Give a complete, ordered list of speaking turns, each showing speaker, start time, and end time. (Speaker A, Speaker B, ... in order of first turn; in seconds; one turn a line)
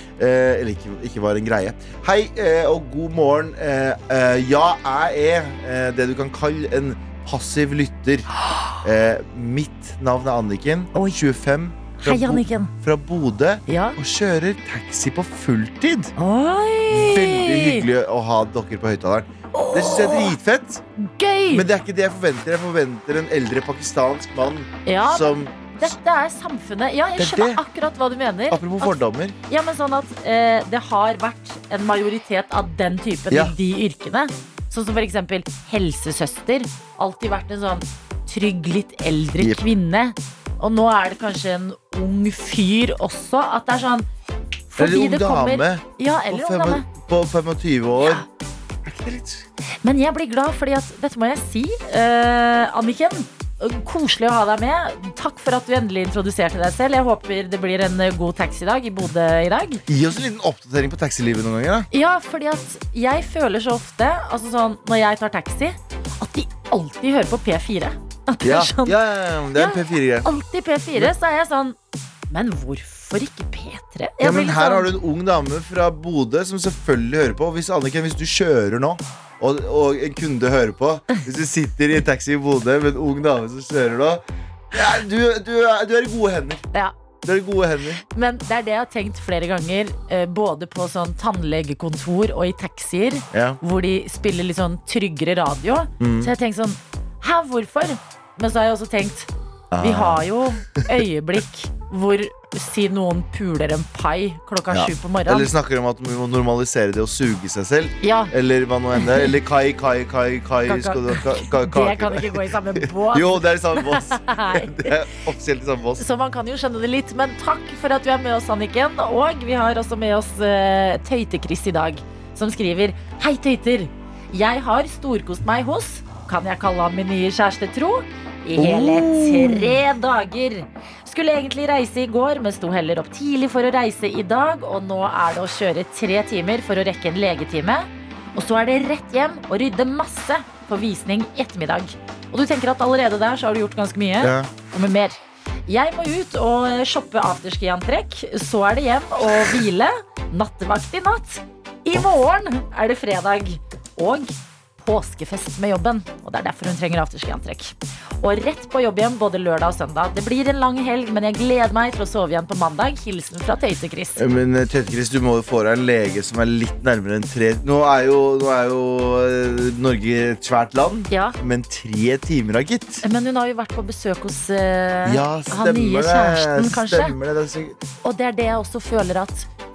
Speaker A: 0.2-8.3
Speaker A: 8.8-16.1
Speaker B: 10.9-11.2
Speaker B: 12.0-12.7
Speaker B: 13.7-14.0
Speaker B: 16.2-17.9
Speaker A: 16.9-20.8
Speaker B: 19.5-20.3
Speaker B: 21.0-21.7
Speaker A: 21.5-25.9
Speaker B: 24.9-44.1
Speaker A: 27.2-27.6
Speaker A: 28.5-29.4
Speaker A: 39.4-39.6
Speaker B: 44.7-46.9
Speaker A: 44.8-48.2
Speaker A: 48.8-49.4
Speaker B: 49.8-59.8
Speaker A: 59.9-61.9
Speaker B: 61.9-69.0
Speaker A: 68.4-70.3
Speaker B: 69.5-71.8
Speaker B: 72.3-74.9
Speaker A: 74.2-86.6
Speaker A: 87.2-88.0
Speaker B: 88.1-99.3
Speaker A: 93.3-93.6
Speaker A: 96.0-96.3
Speaker A: 99.7-100.9
Speaker B: 99.8-105.5
Speaker A: 104.7-116.0
Speaker B: 108.0-108.3
Speaker B: 109.0-109.3
Speaker B: 110.7-114.9
Speaker B: 116.0-164.2
Speaker A: 128.6-129.8
Speaker A: 144.2-144.5
Speaker A: 164.2-173.0
Speaker B: 171.1-171.3
Speaker B: 173.0-177.2
Speaker A: 175.0-177.8
Speaker B: 178.0-179.5